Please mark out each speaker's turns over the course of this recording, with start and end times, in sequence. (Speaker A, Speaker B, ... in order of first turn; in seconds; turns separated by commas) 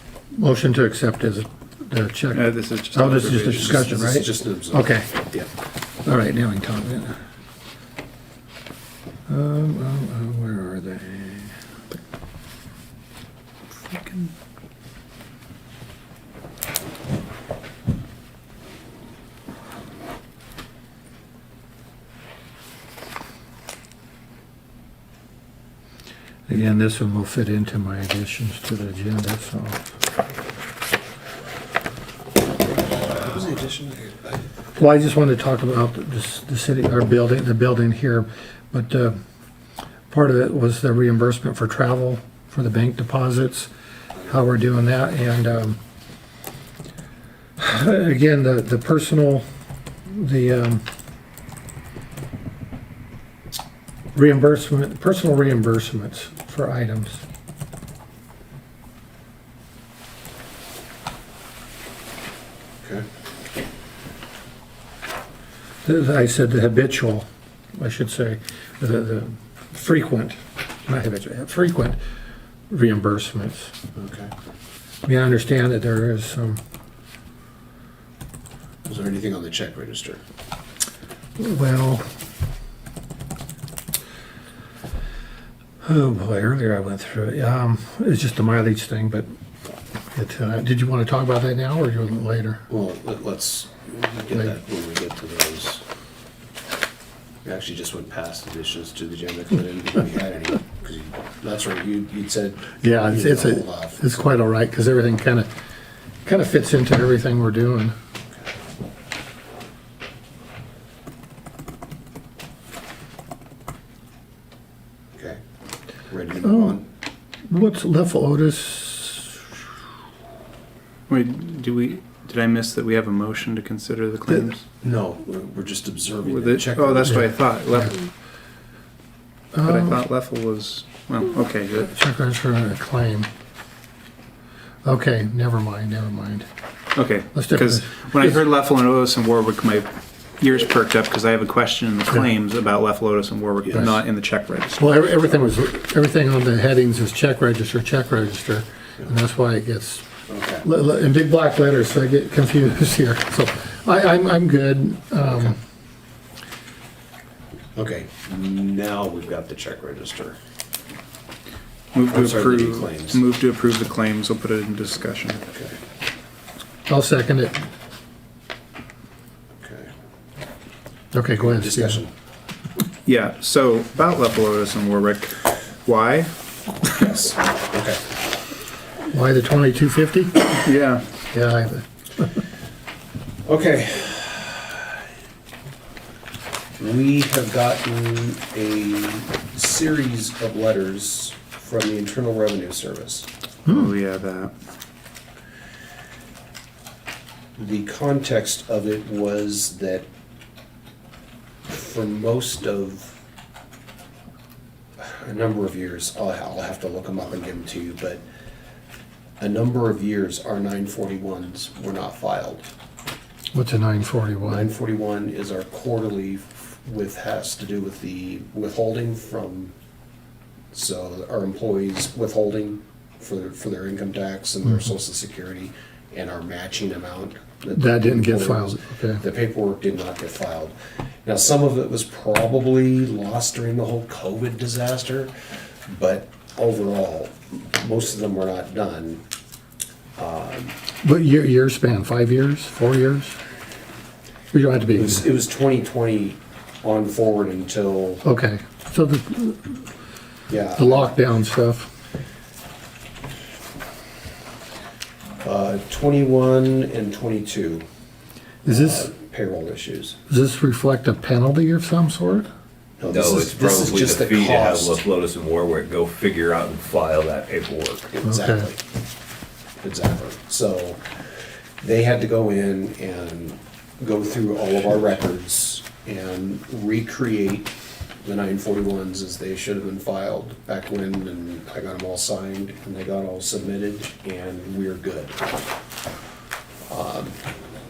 Speaker A: 0.3-5.1, Speaker B: 2.3-3.7, Speaker C: 3.1-5.5, Speaker A: 6.0-7.1, Speaker A: 9.3-11.5, Speaker B: 13.8-14.3, Speaker A: 26.5-29.9, Speaker C: 33.0-34.4, Speaker A: 34.8-39.2, Speaker A: 40.1-43.7, Speaker A: 44.2-45.8, Speaker A: 47.6-49.4, Speaker A: 50.1-50.8, Speaker A: 54.1-57.2, Speaker A: 65.8-72.0, Speaker A: 72.7-73.7, Speaker C: 73.9-74.3, Speaker A: 75.0-76.6, Speaker C: 78.8-80.2, Speaker A: 81.4-82.0, Speaker A: 85.8-89.3, Speaker A: 90.1-92.6, Speaker C: 92.7-95.8, Speaker C: 97.4-104.0, Speaker A: 102.8-105.5, Speaker A: 106.2-107.9, Speaker C: 116.1-116.8, Speaker A: 116.4-116.8, Speaker A: 117.5-119.5, Speaker B: 121.1-124.6, Speaker C: 124.8-127.3, Speaker B: 126.2-128.1, Speaker A: 129.5-130.0, Speaker B: 129.6-131.9, Speaker A: 131.9-133.3, Speaker A: 134.8-136.5, Speaker B: 136.9-139.9, Speaker A: 137.3-138.3, Speaker B: 140.4-144.9, Speaker C: 143.6-143.9, Speaker A: 144.7-150.1, Speaker C: 150.3-150.7, Speaker A: 150.6-155.6, Speaker C: 155.3-155.6, Speaker C: 157.7-160.4, Speaker B: 161.9-165.4, Speaker C: 162.1-163.2, Speaker C: 165.5-165.8, Speaker A: 166.9-167.6, Speaker C: 169.6-169.9, Speaker A: 171.1-172.0, Speaker C: 171.4-172.1, Speaker B: 173.0-176.3, Speaker C: 176.9-178.0, Speaker A: 179.0-180.6, Speaker B: 180.6-181.0, Speaker A: 181.3-182.4, Speaker C: 183.4-185.0, Speaker C: 186.8-193.3, Speaker B: 193.6-194.5, Speaker C: 197.6-200.1, Speaker C: 201.7-203.2, Speaker C: 205.0-208.2, Speaker C: 209.4-212.7, Speaker A: 213.5-214.7, Speaker C: 214.4-219.7, Speaker C: 220.7-230.7, Speaker A: 227.7-229.2, Speaker C: 231.2-235.3, Speaker C: 235.8-239.2, Speaker C: 240.2-240.8, Speaker A: 241.0-243.4, Speaker A: 244.5-245.2, Speaker C: 244.9-248.2, Speaker A: 248.2-249.9, Speaker C: 250.5-251.1, Speaker A: 250.8-251.9, Speaker C: 255.4-257.9, Speaker A: 258.6-259.1, Speaker C: 258.6-260.2, Speaker A: 260.3-262.5, Speaker C: 263.0-265.0, Speaker D: 263.1-268.1, Speaker C: 268.1-268.8, Speaker A: 268.2-268.7, Speaker C: 269.8-271.0, Speaker C: 271.8-285.4, Speaker C: 286.9-287.4